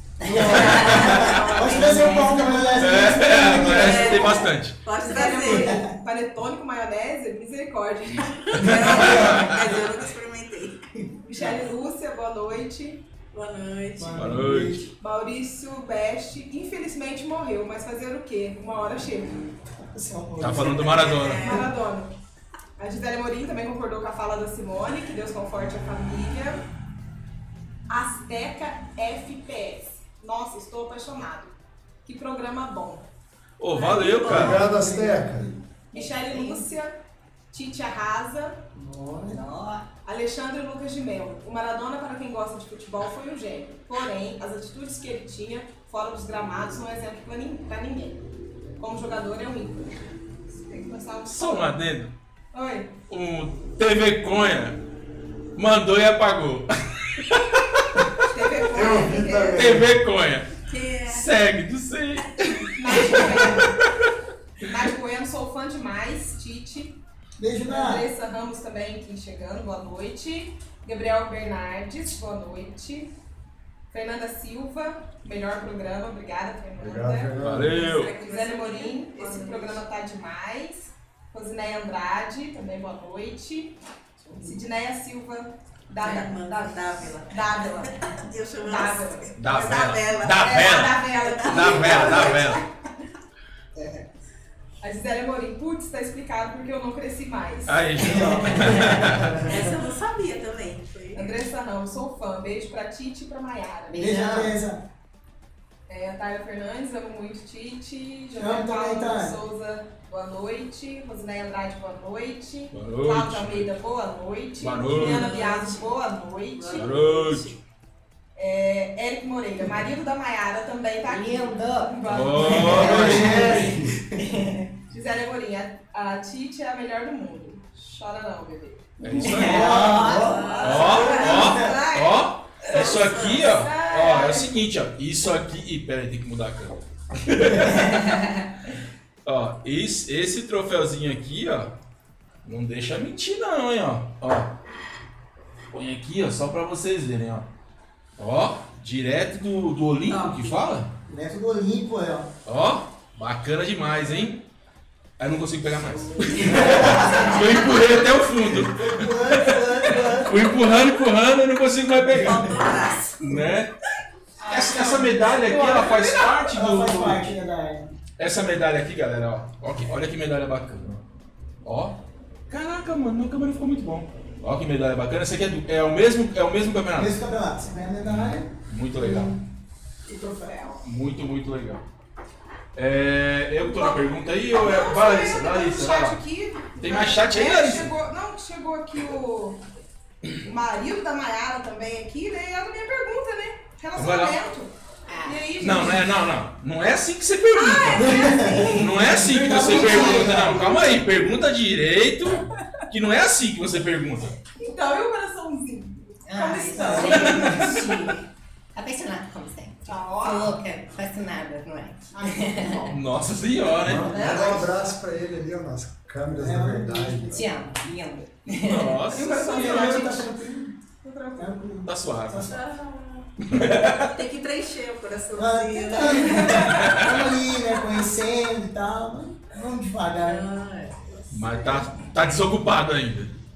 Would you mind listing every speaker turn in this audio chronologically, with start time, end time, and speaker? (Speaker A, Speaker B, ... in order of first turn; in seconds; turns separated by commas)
Speaker A: 0.2-2.3, Speaker B: 0.2-4.5, Speaker C: 0.4-2.5, Speaker D: 0.5-1.7, Speaker E: 1.4-2.2, Speaker D: 2.7-4.8, Speaker C: 3.4-5.8, Speaker E: 5.0-8.9, Speaker B: 5.4-5.9, Speaker C: 8.5-10.8, Speaker D: 8.5-9.7, Speaker B: 9.1-9.4, Speaker E: 11.2-13.0, Speaker C: 13.3-14.4, Speaker B: 14.0-14.9, Speaker D: 14.2-14.8, Speaker E: 15.0-19.5, Speaker B: 19.8-21.2, Speaker D: 20.4-21.7, Speaker C: 20.7-21.7, Speaker E: 21.4-22.1, Speaker E: 22.8-26.6, Speaker E: 27.9-31.5, Speaker E: 32.0-33.0, Speaker D: 33.6-34.7, Speaker E: 33.7-34.3, Speaker C: 34.1-34.6, Speaker F: 34.3-35.5, Speaker B: 34.3-35.6, Speaker E: 35.9-37.0, Speaker A: 36.0-36.5, Speaker E: 37.5-38.6, Speaker B: 38.8-39.4, Speaker A: 39.3-39.9, Speaker E: 40.0-48.2, Speaker E: 48.8-49.9, Speaker E: 50.6-51.8, Speaker D: 51.3-52.1, Speaker E: 52.5-53.0, Speaker D: 53.1-54.8, Speaker D: 55.5-58.1, Speaker E: 58.3-59.6, Speaker F: 58.7-60.0, Speaker D: 59.5-63.7, Speaker C: 60.7-61.3, Speaker E: 62.8-63.8, Speaker E: 64.6-67.0, Speaker B: 67.4-68.1, Speaker E: 67.7-73.1, Speaker E: 73.9-77.3, Speaker F: 76.8-77.9, Speaker D: 77.4-78.1, Speaker C: 77.7-79.8, Speaker E: 78.2-83.8, Speaker B: 84.3-84.5, Speaker E: 84.4-89.4, Speaker C: 86.0-92.6, Speaker D: 89.4-92.6, Speaker E: 90.4-92.6, Speaker E: 94.8-97.9, Speaker D: 97.7-99.4, Speaker F: 98.1-99.7, Speaker B: 98.4-99.2, Speaker C: 99.4-101.3, Speaker E: 101.1-104.3, Speaker A: 103.9-104.5, Speaker B: 104.0-104.8, Speaker E: 105.9-117.0, Speaker B: 108.4-109.4, Speaker D: 112.7-113.7, Speaker D: 114.6-115.3, Speaker C: 114.9-116.0, Speaker C: 116.6-117.6, Speaker D: 116.7-117.6, Speaker E: 118.4-123.1, Speaker A: 121.1-124.7, Speaker D: 122.1-123.6, Speaker B: 122.4-124.3, Speaker F: 122.9-124.0, Speaker E: 124.9-134.5, Speaker D: 129.0-130.0, Speaker B: 129.1-131.8, Speaker A: 129.2-130.3, Speaker C: 130.1-131.7, Speaker D: 130.6-138.3, Speaker C: 132.7-133.6, Speaker D: 139.2-141.7, Speaker D: 142.4-144.5, Speaker D: 145.7-147.5, Speaker D: 148.2-150.9, Speaker C: 150.1-150.6, Speaker B: 151.1-152.3, Speaker D: 152.5-154.4, Speaker D: 155.2-162.6, Speaker C: 156.1-157.4, Speaker F: 156.4-157.2, Speaker B: 156.4-157.5, Speaker B: 158.6-160.5, Speaker C: 162.1-163.4, Speaker D: 163.2-163.7, Speaker E: 164.4-166.4, Speaker D: 164.5-167.3, Speaker B: 166.4-168.0, Speaker D: 168.2-171.0, Speaker D: 171.6-172.0, Speaker D: 172.5-177.2, Speaker B: 177.0-179.4, Speaker D: 178.0-179.3, Speaker B: 180.1-180.8, Speaker E: 180.1-180.8, Speaker D: 180.8-181.8, Speaker D: 182.8-186.2, Speaker E: 183.6-189.6, Speaker D: 186.8-187.9, Speaker E: 190.4-196.2, Speaker D: 194.0-194.4, Speaker A: 195.1-195.4, Speaker D: 195.6-204.4, Speaker E: 197.6-200.8, Speaker B: 198.0-200.8, Speaker E: 204.6-208.2, Speaker A: 206.2-212.9, Speaker B: 206.8-207.3, Speaker D: 207.1-207.8, Speaker E: 209.9-210.6, Speaker E: 212.1-213.0, Speaker D: 212.9-214.3, Speaker F: 213.8-217.5, Speaker E: 214.1-214.7, Speaker B: 216.3-217.5, Speaker A: 217.3-219.1, Speaker D: 218.5-220.3, Speaker E: 219.1-220.3, Speaker B: 219.2-220.8, Speaker E: 221.0-221.6, Speaker B: 221.4-222.7, Speaker D: 221.9-222.5, Speaker C: 222.5-223.3, Speaker D: 223.5-224.1, Speaker C: 223.9-226.9, Speaker B: 225.4-230.5, Speaker D: 226.5-227.2, Speaker C: 230.2-231.9, Speaker D: 231.3-233.3